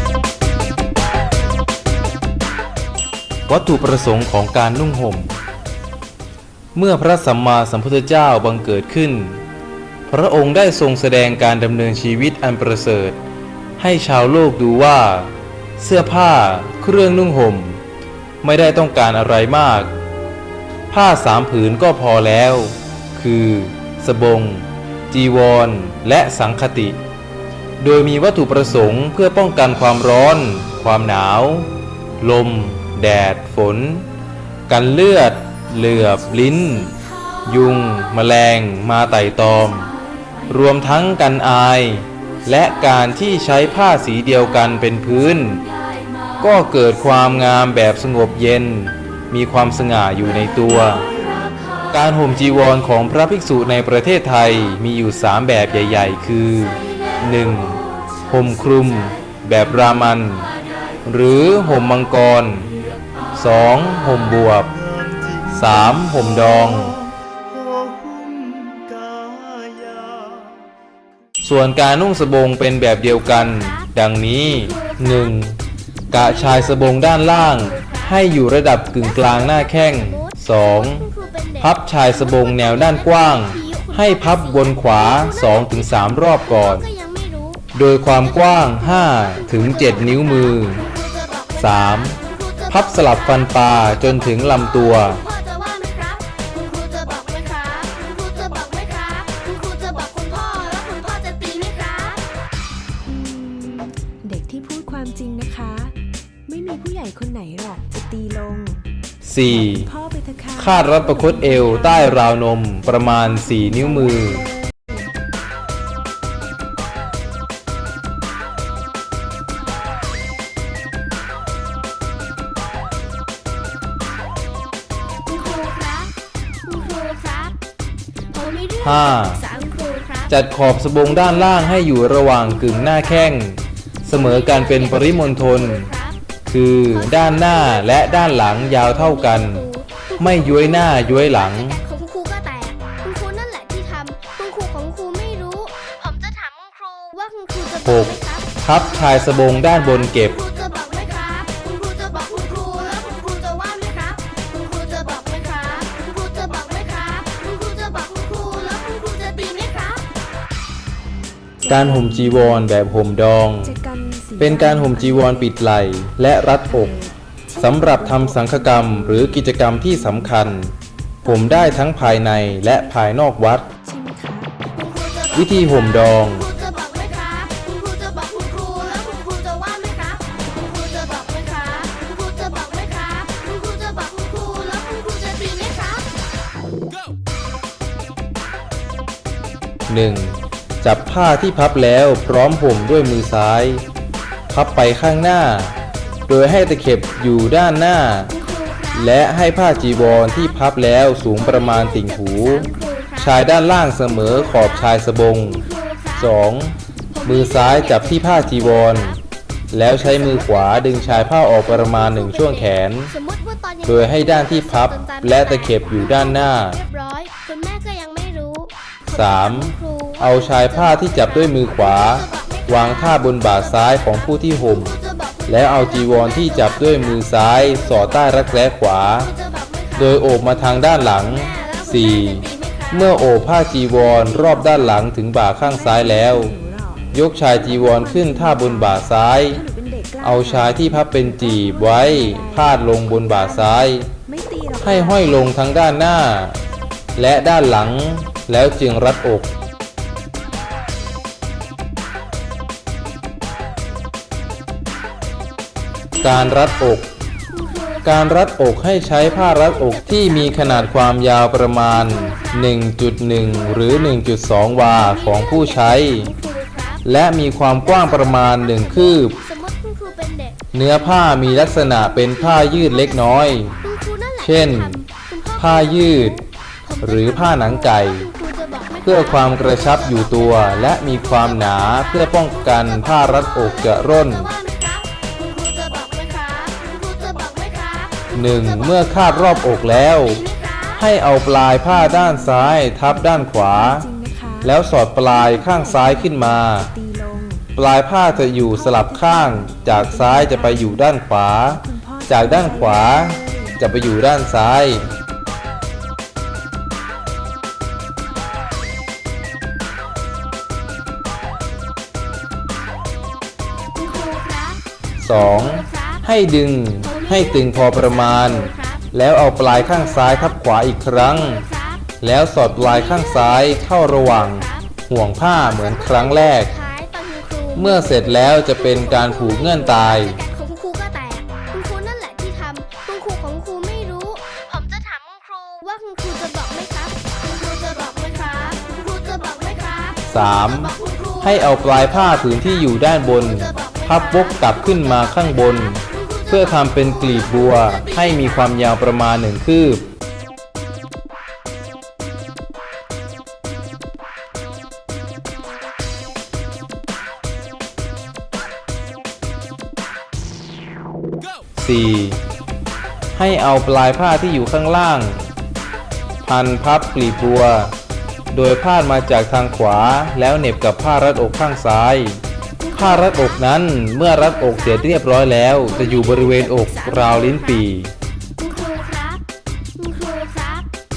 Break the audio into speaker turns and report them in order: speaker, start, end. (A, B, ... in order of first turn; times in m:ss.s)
0:03.5-0:05.3 A
0:06.7-0:09.4 A
0:10.1-0:13.2 A
0:13.8-0:17.8 A
0:18.4-0:19.9 A
0:20.9-0:27.0 A
0:27.8-0:31.7 A
0:32.2-0:34.1 A
0:34.7-0:39.9 A
0:40.5-0:45.6 A
0:46.4-0:51.1 A
0:51.9-1:00.5 A
1:01.0-1:02.7 A
1:03.3-1:04.8 A
1:05.4-1:07.0 A
1:11.4-1:15.6 A
1:13.0-1:13.9 B
1:14.4-1:15.3 B
1:16.1-1:21.1 A
1:16.1-1:18.3 B
1:18.9-1:33.2 B
1:21.6-1:26.8 A
1:27.7-1:30.9 A
1:31.6-1:32.2 A
1:32.7-1:35.2 A
1:34.6-1:42.2 B
1:43.0-1:48.9 C
1:49.2-1:49.9 A
1:49.5-1:52.2 C
1:50.6-1:54.5 A
1:53.5-1:54.7 C
2:05.2-2:07.6 B
2:08.3-2:10.3 B
2:08.8-2:09.4 A
2:10.3-2:15.9 A
2:11.1-2:12.6 B
2:14.1-2:16.2 B
2:16.4-2:19.6 A
2:16.9-2:29.4 B
2:20.2-2:21.8 A
2:27.8-2:30.4 A
2:30.1-2:40.0 B
2:41.6-2:43.8 A
2:41.7-2:42.4 C
2:43.6-2:45.5 C
2:44.4-2:47.0 A
2:46.7-2:49.3 C
2:47.6-2:53.7 A
2:51.2-2:51.9 C
2:53.8-2:54.6 C
2:54.7-3:06.0 B
2:55.3-2:56.5 A
3:09.9-3:13.8 A
3:14.5-3:15.7 A
3:16.3-3:18.3 A
3:18.3-3:20.4 B
3:18.9-3:25.6 A
3:21.3-3:26.4 B
3:26.2-3:29.2 A
3:27.1-3:29.2 B
3:29.7-3:33.1 A
3:29.9-3:48.5 B
3:33.8-3:36.8 A
3:39.1-3:45.0 A
3:45.5-3:49.3 A
3:49.1-3:53.2 B
3:49.9-3:56.5 A
3:54.3-3:55.0 C
3:55.6-4:05.3 C
3:57.1-3:59.6 A
4:00.2-4:04.1 A
4:04.8-4:06.6 A
4:07.2-4:09.6 A
4:16.2-4:17.1 A
4:16.2-4:16.7 B
4:17.5-4:21.0 B
4:18.0-4:26.3 A
4:21.8-4:22.7 B
4:24.8-4:27.0 B
4:27.0-4:29.4 A
4:27.8-4:51.0 B
4:30.7-4:33.7 A
4:34.4-4:35.0 A
4:35.6-4:36.4 A
4:37.0-4:38.3 A
4:39.0-4:44.5 A
4:48.3-4:50.4 A
4:51.0-4:54.1 A
4:51.9-4:54.7 C
4:54.6-4:56.9 A
4:55.3-4:57.7 C
4:57.7-5:05.1 A
4:58.3-5:01.0 C
5:01.7-5:03.8 C
5:14.0-5:16.2 B
5:15.2-5:21.6 A
5:17.0-5:19.1 B
5:19.6-5:20.5 B
5:21.1-5:22.0 B
5:22.2-5:26.7 A
5:22.7-5:24.9 B
5:25.6-5:42.2 B
5:27.7-5:30.4 A
5:40.2-5:50.0 A
5:43.3-5:45.3 B
5:46.3-5:48.6 B
6:01.8-6:02.4 A
6:03.3-6:05.5 A
6:06.4-6:07.9 A
6:08.5-6:12.4 A
6:12.8-6:13.4 B
6:13.0-6:18.1 A
6:15.8-6:17.8 B
6:18.6-6:19.4 B
6:20.0-6:20.9 B